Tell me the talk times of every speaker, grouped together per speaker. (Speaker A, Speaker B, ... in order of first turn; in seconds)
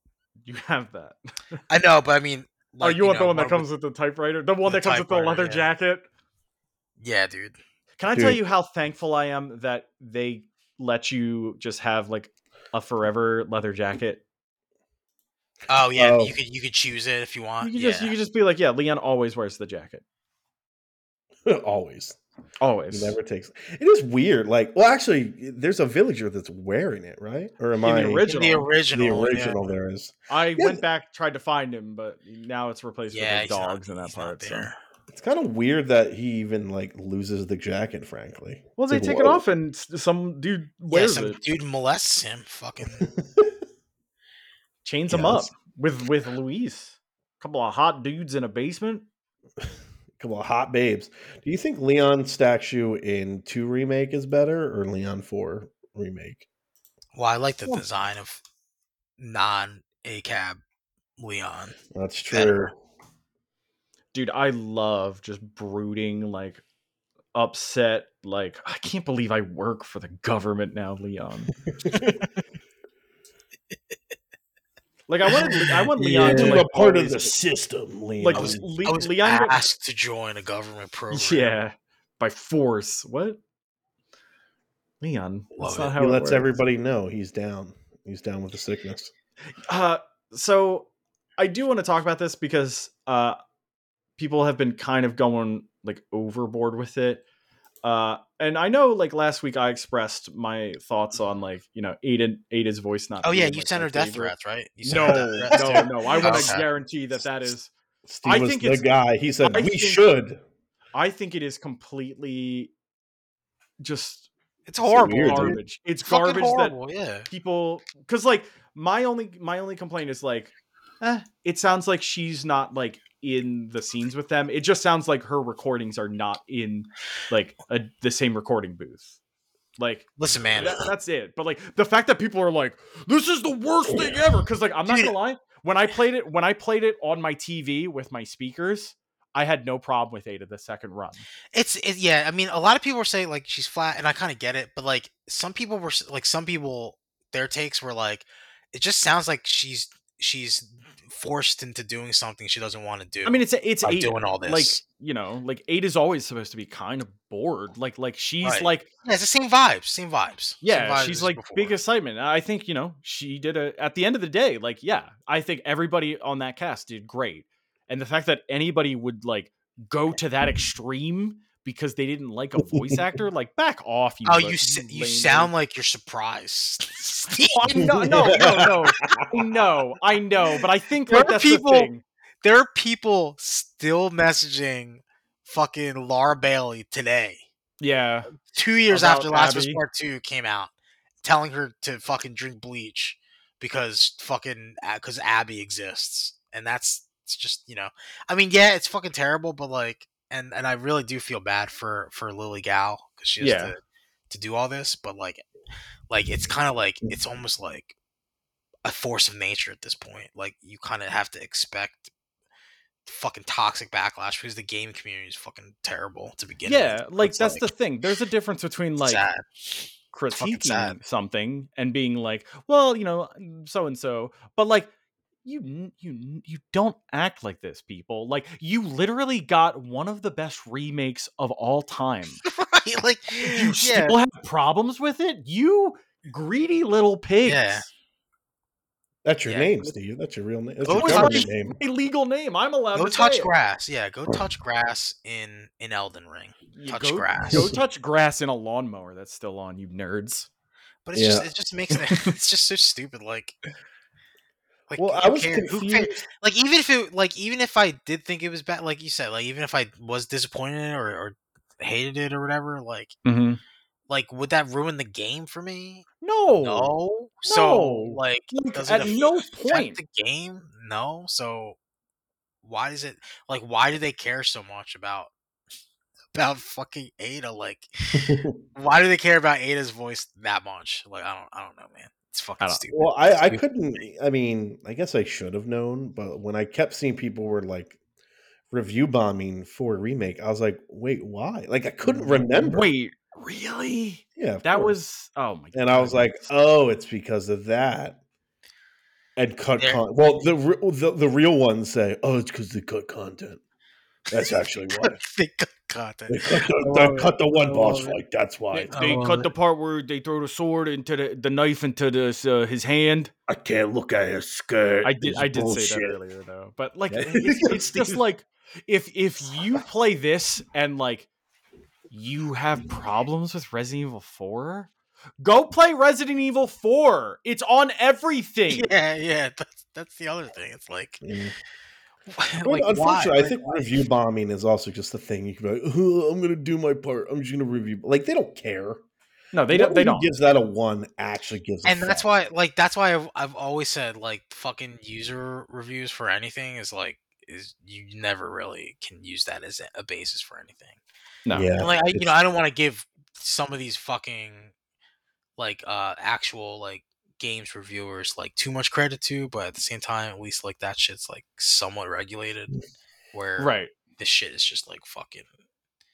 Speaker A: 0.4-1.6, 2.8-6.1, 8.0-14.2, 17.6-20.0, 22.6-23.2, 27.8-28.7, 30.3-34.7, 38.8-41.4, 44.9-49.1, 64.1-66.6, 67.3-71.5, 75.1-77.3, 78.2-79.7, 81.1-83.4, 85.0-86.5, 89.7-93.4, 94.2-97.2, 97.8-104.3, 104.8-107.7, 108.2-108.9, 109.4-110.0, 110.9-112.7, 113.8-114.3, 115.1-116.8, 117.3-129.1, 129.8-141.3, 153.2-158.9, 160.6-175.5, 177.3-182.0, 187.8-188.3, 188.9-189.8, 203.4-203.7, 216.7-219.3, 220.1-224.9, 225.4-232.4, 233.3-237.9, 240.9-243.5, 246.7-250.5, 252.0-252.3, 263.2-263.6, 266.2-266.9, 267.5-270.0, 292.1-296.5, 306.8-308.2, 308.7-313.3, 315.0-321.3, 322.1-328.9, 339.5-340.3, 363.6-363.9
Speaker B: 1.7-3.7, 4.7-5.7, 7.0-7.6, 15.7-18.1, 28.2-29.7, 33.1-34.8, 40.9-43.1, 57.1-58.4, 59.2-60.6, 61.2-61.8, 62.3-62.7, 75.3-76.6, 78.3-81.5, 85.6-86.0, 103.2-106.7, 114.7-117.3, 130.2-130.9, 134.9-135.1, 141.5-154.8, 158.4-161.8, 174.3-177.9, 181.1-181.9, 182.4-187.4, 188.5-205.4, 206.1-207.9, 208.8-212.1, 213.1-217.7, 219.0-219.4, 220.3-221.0, 232.4-234.2, 237.4-237.9, 239.5-239.9, 240.8-241.5, 242.9-247.7, 251.1-253.6, 254.9-263.2, 264.1-271.8, 272.6-275.3, 276.3-283.6, 299.8-300.4, 305.0-306.8, 308.9-309.5, 328.7-331.2, 332.3-334.0, 341.9-351.0, 351.8-354.7, 355.6-362.8, 363.3-365.5
Speaker C: 8.2-8.4, 16.0-16.4, 21.5-22.2, 22.9-28.3, 28.9-30.8, 35.1-39.4, 43.1-43.5, 45.1-45.5, 50.2-56.4, 61.9-62.7, 71.7-72.2, 76.0-78.7, 86.0-89.1, 105.0-106.6, 108.1-110.4, 114.9-115.6, 172.7-173.0, 177.8-179.4, 239.2-241.8, 247.5-247.8, 251.2-251.5, 255.0-256.2, 278.2-278.6, 282.9-288.0, 288.7-292.9, 294.4-295.0, 295.7-298.2, 299.4-303.6, 304.3-305.2, 306.3-309.1, 313.5-316.2, 317.1-318.2, 331.2-331.6, 332.6-339.0, 339.7-342.3, 351.5-352.3